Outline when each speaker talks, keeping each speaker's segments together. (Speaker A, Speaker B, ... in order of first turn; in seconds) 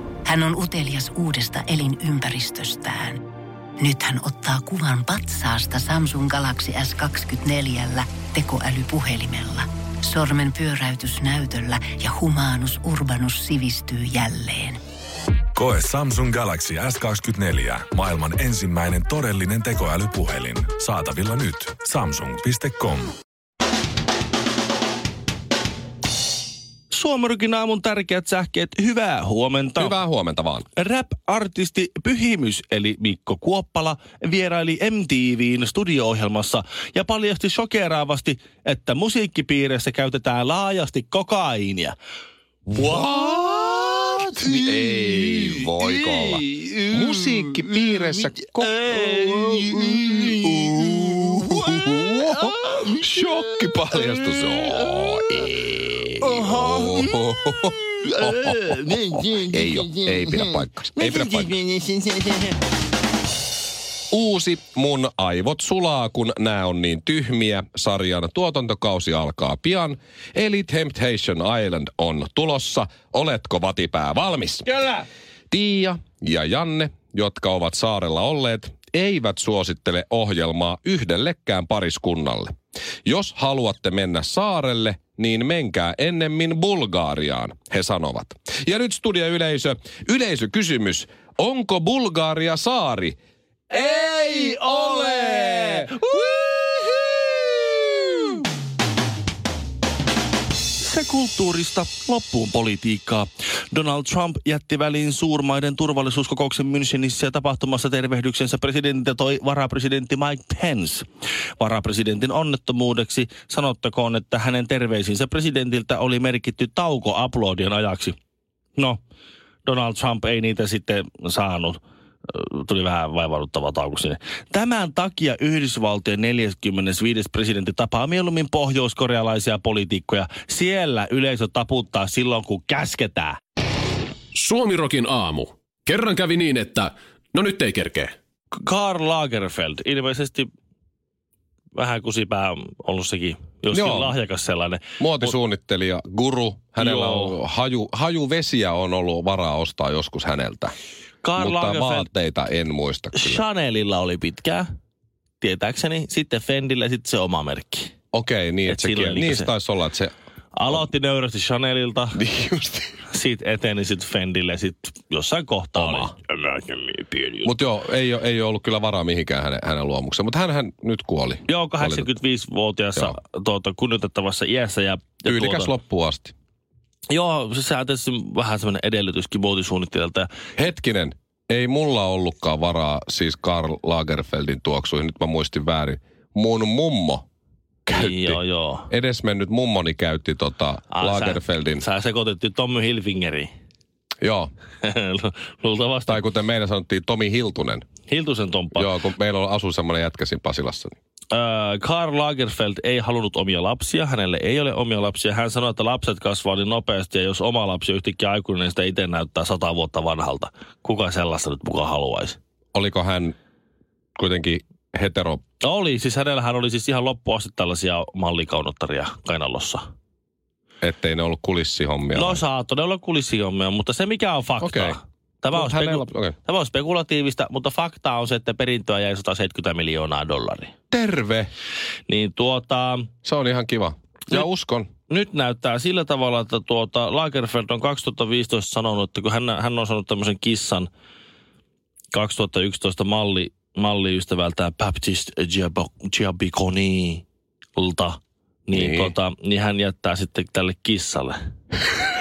Speaker A: 0.2-3.2, 3.8-14.8
Speaker B: 15.5-23.1
Speaker C: 26.9-30.0, 30.8-42.0, 42.8-43.5, 44.4-50.5, 56.3-57.0, 58.2-59.5, 61.0-62.5, 93.9-97.0, 98.0-98.4, 100.8-111.0, 111.6-118.2, 119.6-133.4, 138.5-140.5, 141.7-145.4, 146.8-147.4, 151.2-152.1, 153.1-154.7, 155.4-157.9, 158.7-159.5, 160.6-162.2, 163.1-167.6, 171.5-175.7, 177.1-180.3, 187.9-188.9, 190.9-193.5, 194.8-196.2, 198.1-198.9, 201.3-212.4, 215.6-219.9, 222.2-230.7, 232.1-233.1, 235.1-240.9, 242.1-247.2, 247.8-251.4
Speaker D: 29.8-30.6, 42.7-61.6, 64.1-74.7, 75.5-82.5, 83.0-93.2, 93.7-96.3, 143.7-144.2, 145.0-150.7, 151.3-153.4, 158.1-160.1, 162.1-163.0, 165.8-166.1, 167.4-172.1, 175.2-176.3, 180.6-187.2, 187.9-191.8, 194.2-194.5, 196.1-197.8, 198.7-200.9, 212.7-213.3, 214.2-215.4, 220.8-222.4, 224.6-225.0, 225.5-226.3, 230.9-231.5, 233.2-234.9, 248.7-249.1
Speaker E: 134.3-138.1